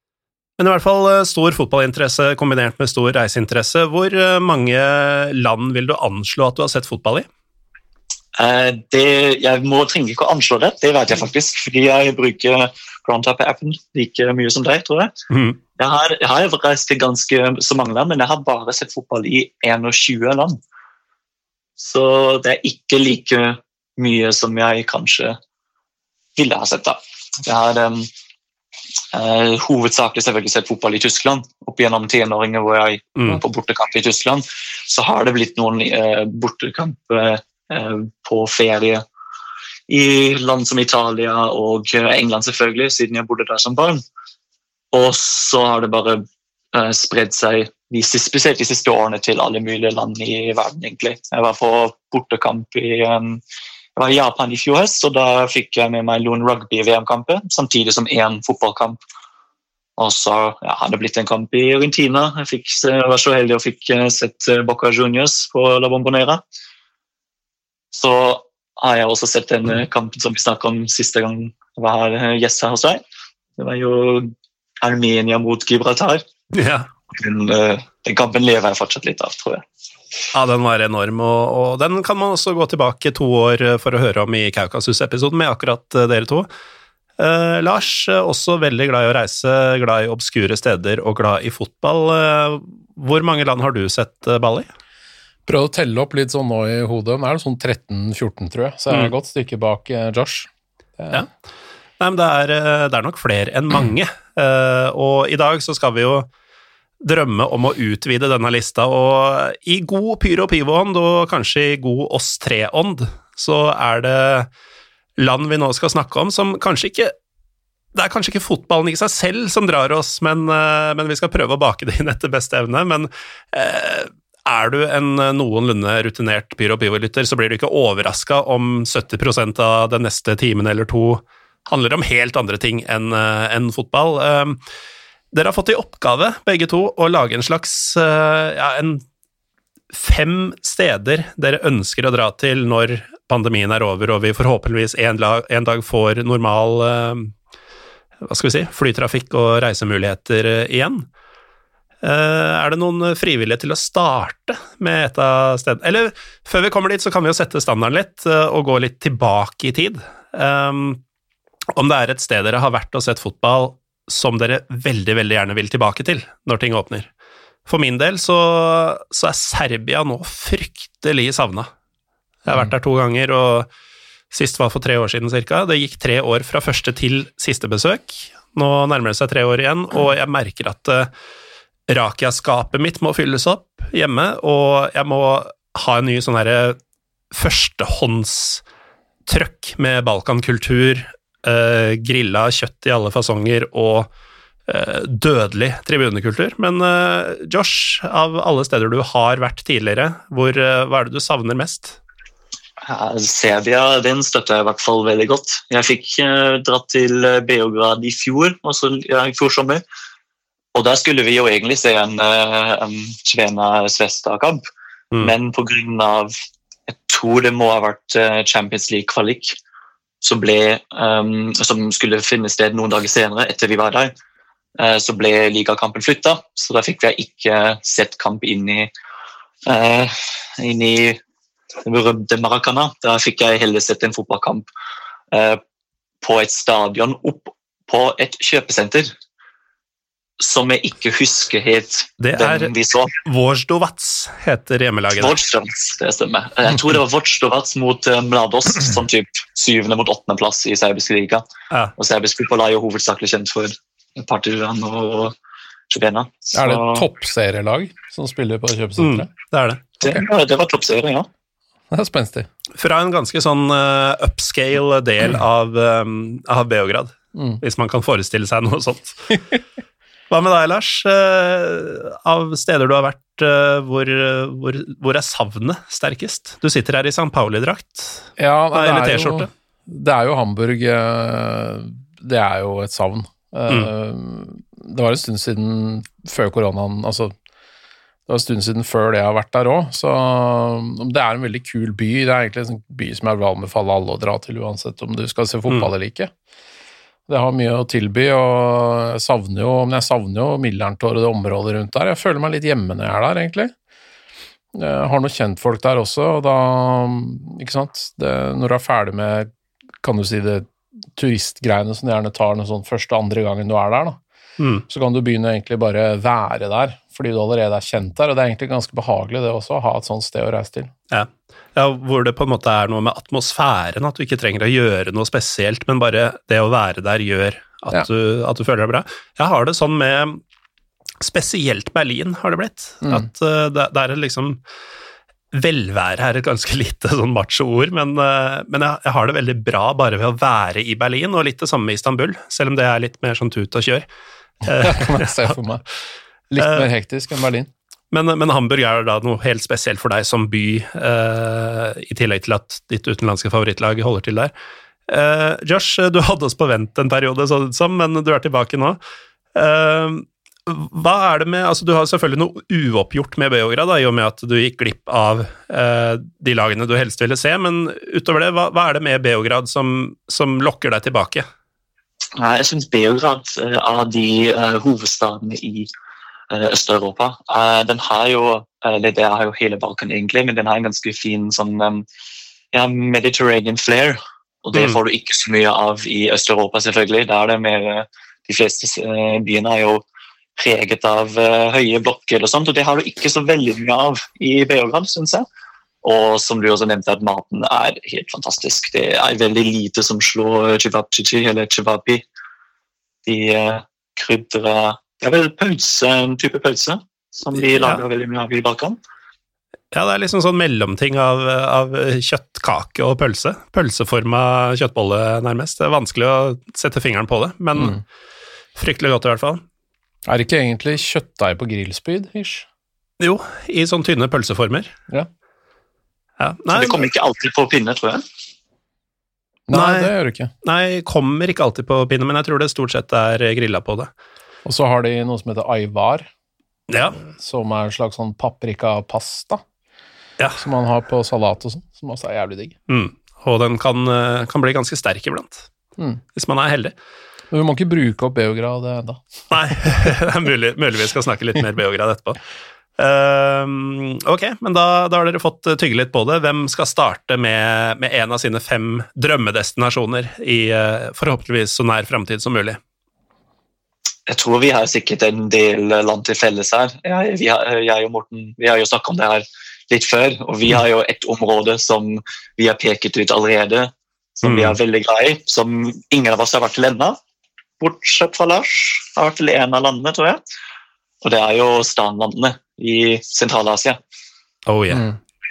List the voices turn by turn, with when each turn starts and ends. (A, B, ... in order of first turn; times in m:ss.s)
0:00.6-0:07.3 A
0:08.4-0:15.1 B
0:15.3-0:15.6 A
0:15.8-0:20.6 B
0:21.8-0:25.4 B
0:26.4-0:28.1 B
0:29.1-0:39.0 B
0:39.9-0:44.0 B
0:44.9-0:53.4 B
0:54.0-0:59.0 B
1:00.0-1:06.4 B
1:07.9-1:13.0 B
1:13.6-1:16.2 B
1:16.5-1:16.9 A
1:17.1-1:19.6 B
1:20.3-1:26.5 A
1:27.2-1:34.7 A
1:35.5-1:41.2 C
1:42.0-1:46.3 A
1:47.0-1:54.5 A
1:55.2-1:57.1 A
1:57.9-2:14.6 A
2:15.3-2:19.0 A
2:19.9-2:27.3 A
2:28.3-2:31.1 A
2:32.0-2:41.0 A
2:41.7-2:47.1 A
2:47.7-2:51.7 A
2:52.4-2:53.7 A
2:54.3-3:01.1 A
3:01.9-3:06.8 A
3:07.3-3:08.6 A
3:09.3-3:14.1 A
3:14.7-3:22.0 A
3:22.8-3:29.8 B
3:30.7-3:34.6 B
3:35.2-3:36.3 B
3:36.9-3:39.6 B
3:40.2-3:44.1 B
3:44.8-3:48.9 B
3:49.6-3:51.2 B
3:51.8-3:54.6 B
3:55.3-3:55.6 B
3:56.2-3:59.1 B
4:00.4-4:03.1 B
4:02.2-4:02.7 A
4:03.2-4:05.4 A
4:05.2-4:11.4 B
4:12.0-4:15.3 B
4:15.9-4:17.0 B
4:16.5-4:19.3 C
4:19.0-4:19.8 A
4:20.0-4:21.3 B
4:21.9-4:22.5 C
4:22.8-4:29.3 A
4:27.3-4:27.6 C
4:30.3-4:39.5 A
4:38.4-4:47.3 C
4:48.3-4:56.3 C
4:57.3-5:03.7 C
5:04.7-5:09.5 C
5:10.0-5:14.2 C
5:14.6-5:14.8 A
5:14.9-5:20.9 C
5:21.1-5:30.4 A
5:31.2-5:34.6 A
5:35.5-5:44.0 A
5:44.6-5:45.5 A
5:44.7-5:45.8 C
5:46.5-5:47.7 C
5:46.6-5:46.9 A
5:48.1-5:54.5 A
5:55.1-5:59.0 A
5:59.5-6:11.4 A
6:12.4-6:15.9 B
6:16.5-6:22.0 B
6:22.7-6:30.0 B
6:30.6-6:35.4 B
6:36.0-6:42.2 B
6:43.2-6:49.0 B
6:47.7-6:48.0 A
6:49.9-6:58.0 A
6:57.8-6:58.0 C
6:58.8-6:59.6 A
7:00.3-7:02.6 C
7:03.2-7:04.9 A
7:06.4-7:07.1 A
7:06.7-7:08.2 B
7:09.7-7:10.5 C
7:09.7-7:10.1 A
7:10.6-7:14.1 A
7:14.6-7:16.3 C
7:16.9-7:17.2 A
7:17.4-7:19.6 C
7:20.6-7:22.8 C
7:22.9-7:25.7 A
7:26.3-7:26.9 A
7:27.5-7:29.2 C
7:29.5-7:32.4 A
7:33.0-7:42.8 A
7:44.3-7:57.2 B
7:54.4-7:54.8 A
7:57.8-8:00.4 B
8:01.2-8:04.0 B
8:04.7-8:05.0 A
8:04.9-8:05.2 C